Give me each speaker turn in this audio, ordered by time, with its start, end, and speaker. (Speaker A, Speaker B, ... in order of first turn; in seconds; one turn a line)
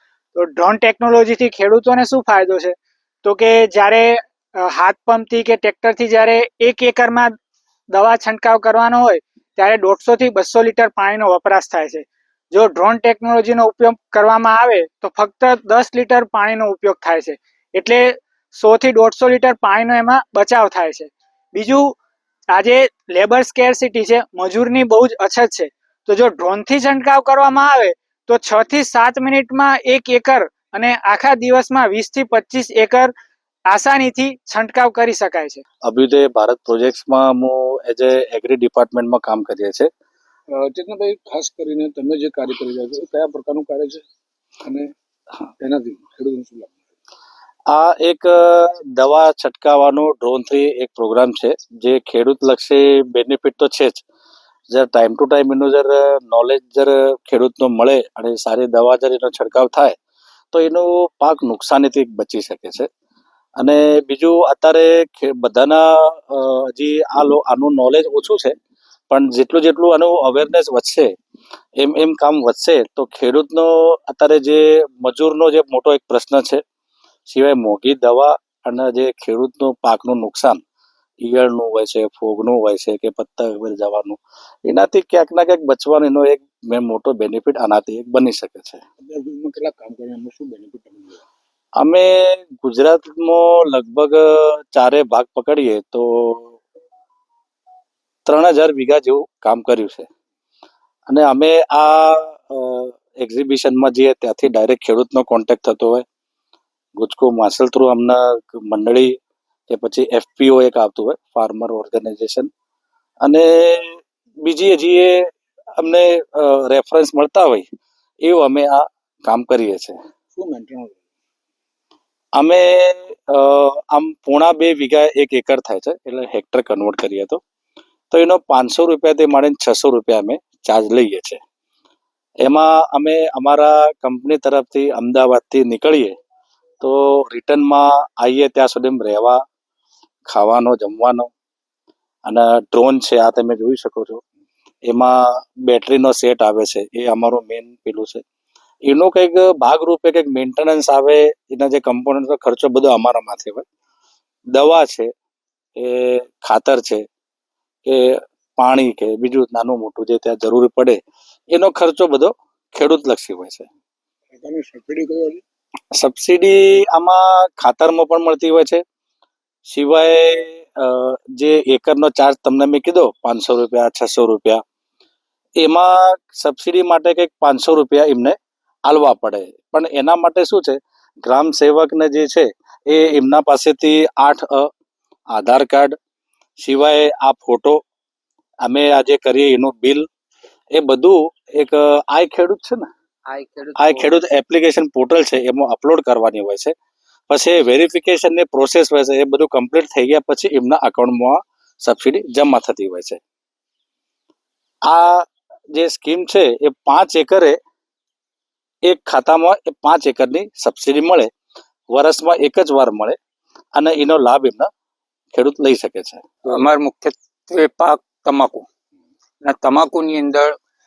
Speaker A: 0.3-7.3
Speaker A: 7.9-21.9
Speaker A: 22.5-33.1
Speaker A: 33.7-35.6
Speaker B: 35.8-39.9
Speaker C: 40.5-44.0
Speaker C: 44.6-44.9
Speaker C: 45.6-46.8
Speaker B: 47.7-54.0
Speaker B: 54.7-59.9
Speaker B: 60.5-62.9
Speaker B: 63.6-68.5
Speaker B: 69.1-71.1
Speaker B: 71.8-76.6
Speaker B: 77.3-80.6
Speaker B: 81.2-88.8
Speaker C: 89.0-91.2
Speaker B: 91.8-96.6
Speaker B: 98.2-100.1
Speaker B: 101.1-106.0
Speaker B: 107.0-109.1
Speaker B: 109.7-112.5
Speaker B: 113.2-115.2
Speaker B: 115.8-117.7
Speaker B: 118.2-120.0
Speaker C: 120.3-121.0
Speaker B: 122.3-127.4
Speaker B: 128.1-131.4
Speaker B: 132.4-136.1
Speaker B: 136.8-139.4
Speaker B: 140.2-141.3
Speaker B: 142.2-144.2
Speaker B: 144.8-148.2
Speaker B: 148.8-153.6
Speaker B: 154.5-155.1
Speaker B: 155.8-157.0
Speaker B: 157.8-161.0
Speaker B: 161.5-163.7
Speaker C: 164.3-165.4
Speaker B: 165.9-168.8
Speaker B: 169.7-174.6
Speaker B: 175.6-184.7
Speaker B: 185.3-185.9
Speaker B: 186.6-187.8
Speaker B: 188.6-190.1
Speaker B: 190.7-192.9
Speaker D: 193.3-194.1
Speaker B: 193.8-196.7
Speaker B: 197.3-203.2
Speaker B: 204.8-207.6
Speaker B: 208.8-211.3
Speaker B: 211.9-213.2
Speaker B: 213.7-214.7
Speaker B: 215.3-216.2
Speaker D: 216.4-218.6
Speaker D: 219.4-220.6